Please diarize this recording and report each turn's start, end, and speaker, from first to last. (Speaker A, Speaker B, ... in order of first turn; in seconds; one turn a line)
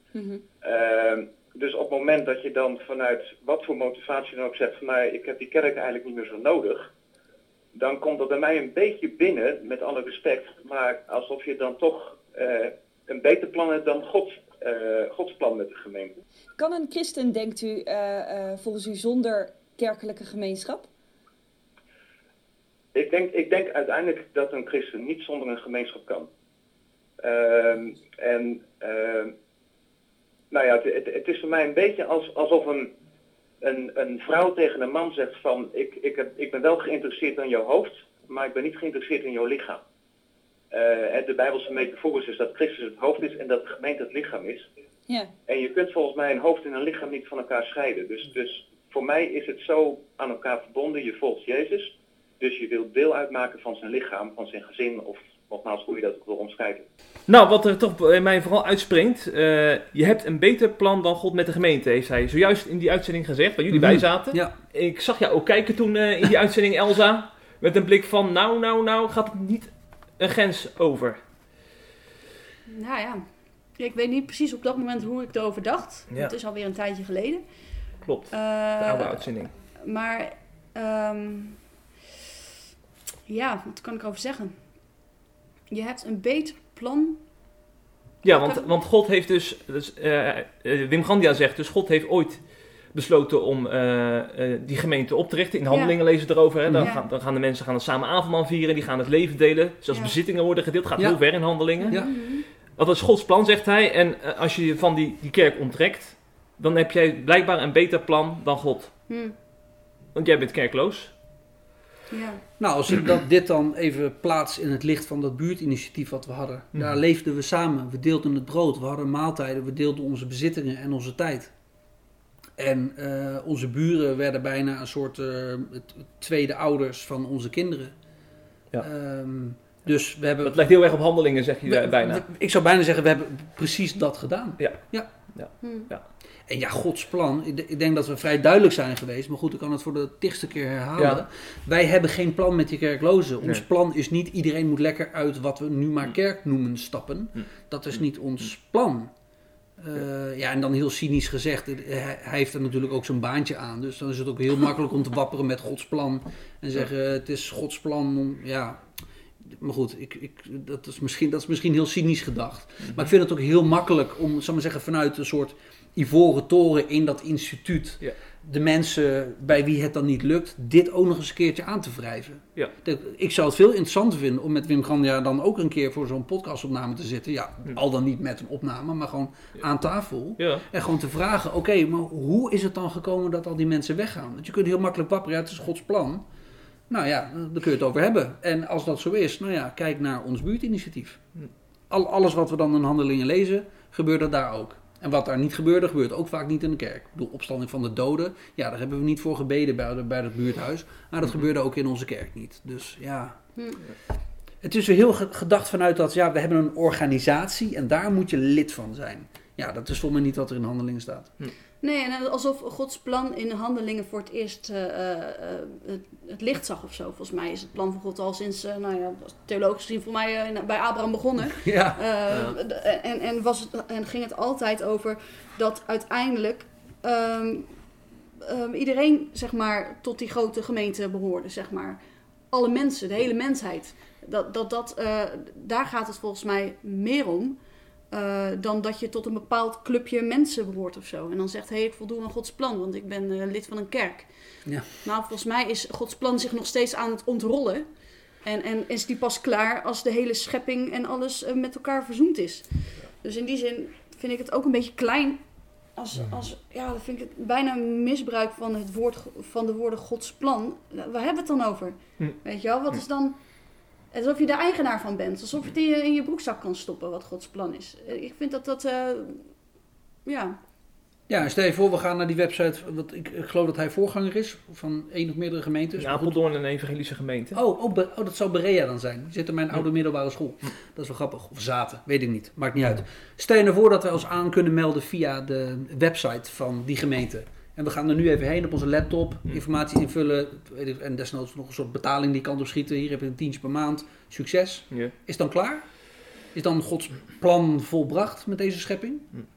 Speaker A: 0.1-0.4
Speaker B: 0.6-6.8
Speaker B: 7.7-16.1
Speaker A: 16.6-20.9
Speaker B: 22.9-26.3
Speaker B: 27.2-29.3
Speaker B: 30.5-32.9
Speaker B: 33.6-39.8
Speaker B: 40.7-44.6
Speaker B: 45.5-56.9
Speaker C: 57.3-71.2
Speaker D: 63.7-64.5
Speaker E: 72.7-77.4
Speaker C: 78.0-79.5
Speaker E: 78.3-81.6
Speaker E: 83.3-84.8
Speaker E: 85.7-87.2
Speaker C: 88.2-109.0
Speaker E: 88.3-88.7
Speaker E: 95.7-97.0
Speaker E: 99.9-100.2
Speaker D: 101.0-102.1
Speaker E: 101.8-102.5
Speaker E: 109.1-109.3
Speaker C: 110.1-111.1
Speaker E: 112.1-112.4
Speaker D: 112.6-121.5
Speaker C: 116.7-117.0
Speaker D: 122.6-127.9
Speaker D: 128.8-130.6
Speaker C: 130.4-132.2
Speaker D: 131.7-135.1
Speaker C: 134.6-136.1
Speaker E: 135.6-135.9
Speaker D: 136.5-149.1
Speaker C: 141.0-141.2
Speaker D: 149.8-158.8
Speaker D: 159.4-186.2
Speaker C: 162.8-163.1
Speaker C: 180.4-180.6
Speaker D: 186.9-191.2
Speaker D: 191.9-203.4
Speaker E: 203.6-203.8
Speaker D: 204.6-211.3
Speaker E: 211.8-227.8
Speaker D: 221.6-222.0
Speaker E: 228.4-247.9
Speaker E: 248.4-269.5
Speaker E: 270.2-270.6
Speaker D: 271.3-276.4
Speaker C: 276.0-277.6
Speaker D: 277.5-299.3